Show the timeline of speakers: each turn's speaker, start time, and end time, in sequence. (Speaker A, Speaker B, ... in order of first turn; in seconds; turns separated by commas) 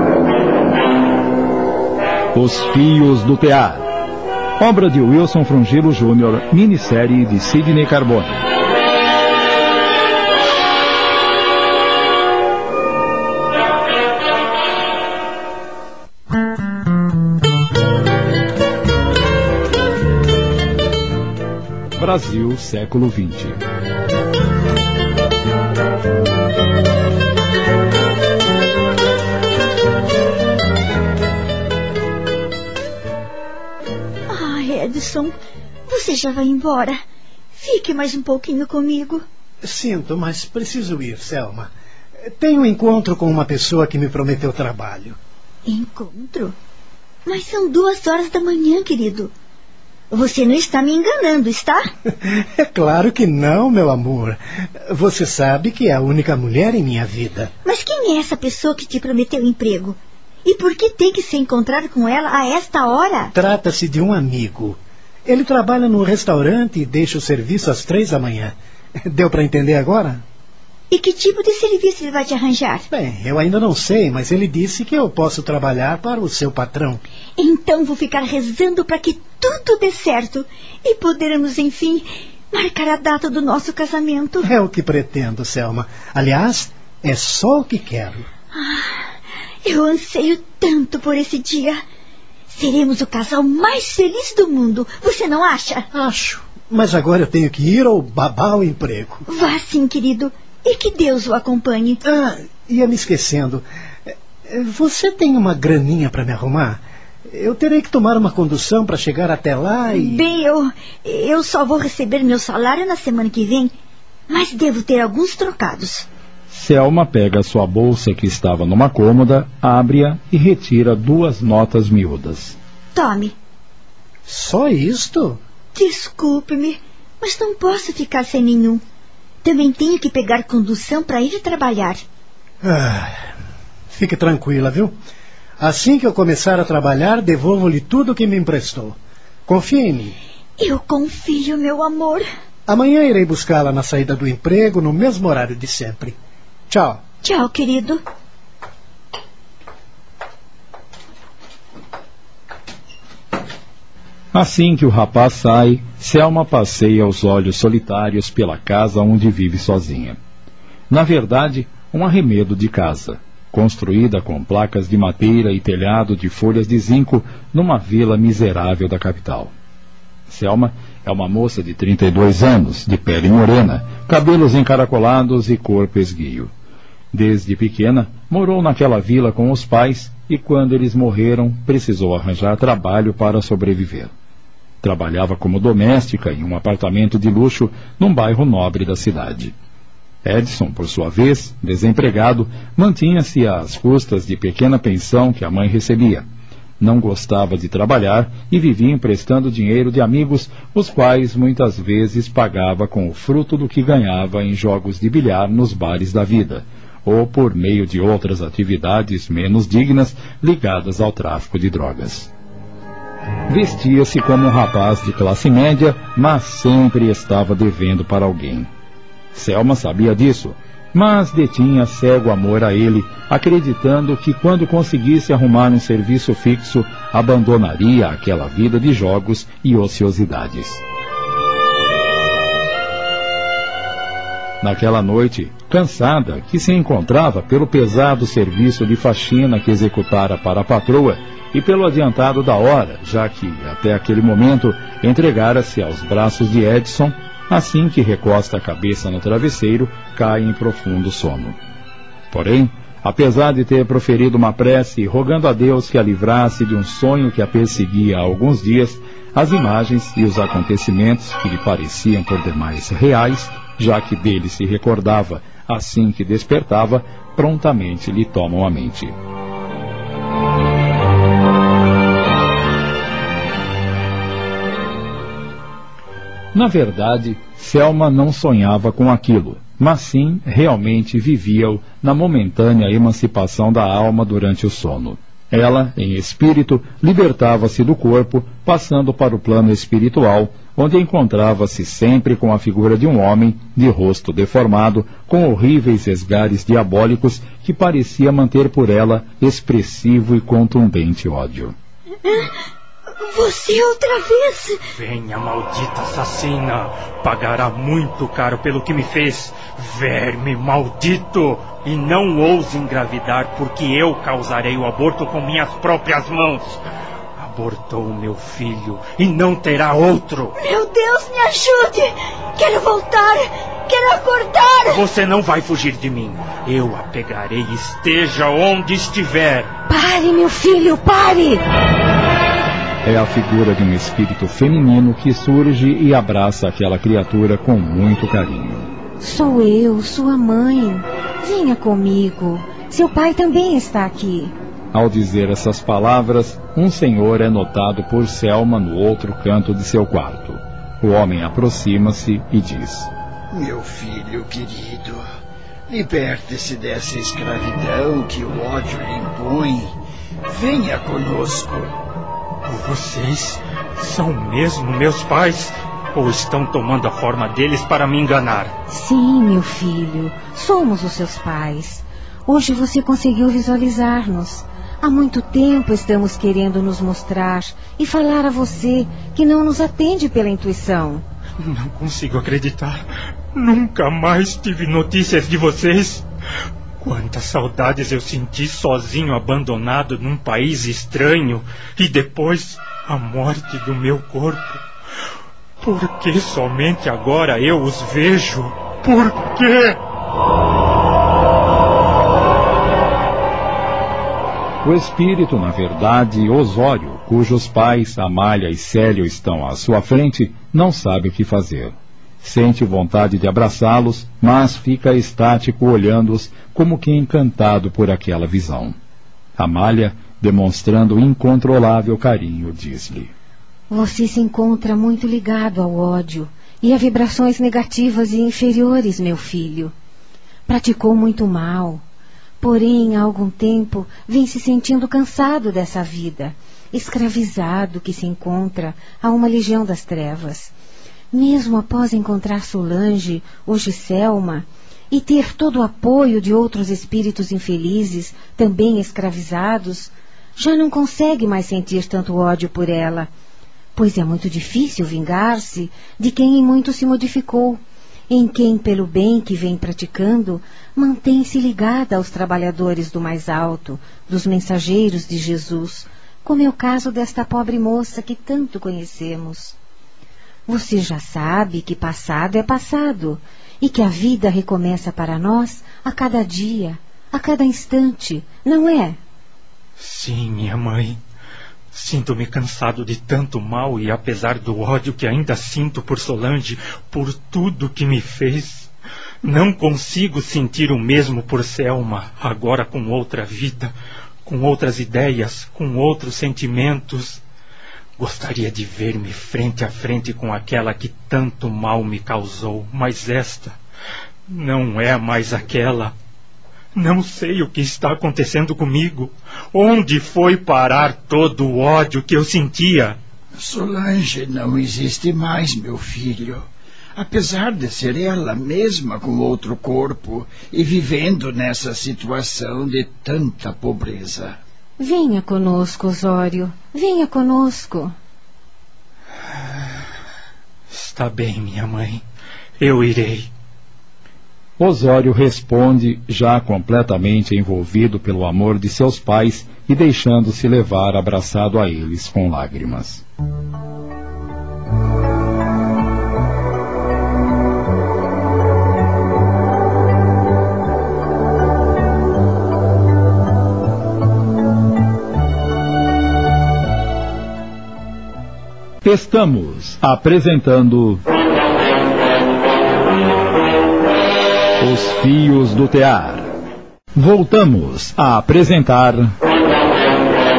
Speaker A: 2.3-3.9, Speaker A: 4.6-8.4, Speaker A: 22.0-23.6, Speaker B: 34.3-35.3, Speaker B: 35.9-37.0, Speaker B: 37.5-39.2, Speaker C: 39.6-41.7, Speaker C: 42.4-45.2, Speaker B: 45.6-46.5, Speaker B: 47.2-49.3, Speaker B: 50.1-51.9, Speaker C: 52.2-57.5, Speaker B: 57.6-63.3, Speaker C: 63.3-68.5, Speaker C: 69.1-70.2, Speaker B: 70.9-72.8, Speaker C: 72.9-77.0, Speaker B: 77.4-84.5, Speaker C: 84.4-88.2, Speaker B: 88.5-91.8, Speaker B: 92.5-95.9, Speaker C: 95.9-99.2, Speaker B: 99.3-102.0, Speaker C: 102.0-110.3, Speaker B: 109.9-113.7, Speaker B: 114.3-116.0, Speaker A: 116.5-122.5, Speaker B: 122.9-123.3, Speaker C: 124.3-125.4, Speaker B: 125.7-128.8, Speaker B: 129.4-132.0, Speaker C: 132.6-133.2, Speaker C: 133.9-134.9, Speaker C: 135.6-140.2, Speaker B: 140.6-142.2, Speaker C: 142.7-146.2, Speaker C: 146.7-147.0, Speaker B: 147.2-148.0, Speaker A: 154.3-160.2, Speaker A: 160.9-169.5, Speaker A: 170.3-176.5, Speaker A: 177.1-184.1, Speaker A: 184.8-189.5, Speaker A: 190.2-196.2, Speaker A: 196.8-212.3, Speaker A: 213.5-218.7, Speaker A: 219.3-230.8, Speaker A: 234.6-251.6, Speaker A: 252.3-269.1, Speaker A: 276.5-301.7, Speaker B: 302.2-302.5, Speaker B: 303.2-304.8, Speaker D: 304.9-316.8, Speaker D: 317.4-320.6, Speaker B: 320.6-325.0, Speaker D: 324.9-329.7, Speaker E: 329.9-331.6, Speaker A: 333.0-338.9, Speaker E: 339.2-344.5, Speaker A: 344.9-353.1, Speaker F: 353.5-355.2, Speaker F: 355.9-359.9, Speaker F: 360.4-361.9, Speaker D: 362.7-368.7, Speaker E: 368.9-381.2, Speaker D: 381.6-386.2, Speaker D: 387.0-394.8, Speaker D: 395.8-400.0, Speaker A: 404.8-418.9, Speaker A: 419.6-423.3, Speaker E: 423.9-429.9, Speaker E: 430.7-432.0, Speaker E: 432.6-440.7, Speaker E: 441.3-453.3, Speaker E: 453.9-469.8, Speaker E: 470.7-479.2, Speaker D: 480.0-481.2, Speaker D: 481.9-488.9, Speaker D: 489.4-493.9, Speaker D: 494.4-497.4, Speaker D: 498.2-503.8, Speaker D: 504.5-506.1, Speaker D: 506.9-513.2, Speaker F: 513.6-524.6, Speaker E: 525.0-528.1, Speaker D: 530.9-532.2, Speaker D: 532.8-533.5, Speaker A: 534.8-543.2, Speaker A: 559.0-561.2, Speaker A: 564.8-566.5, Speaker A: 567.1-569.3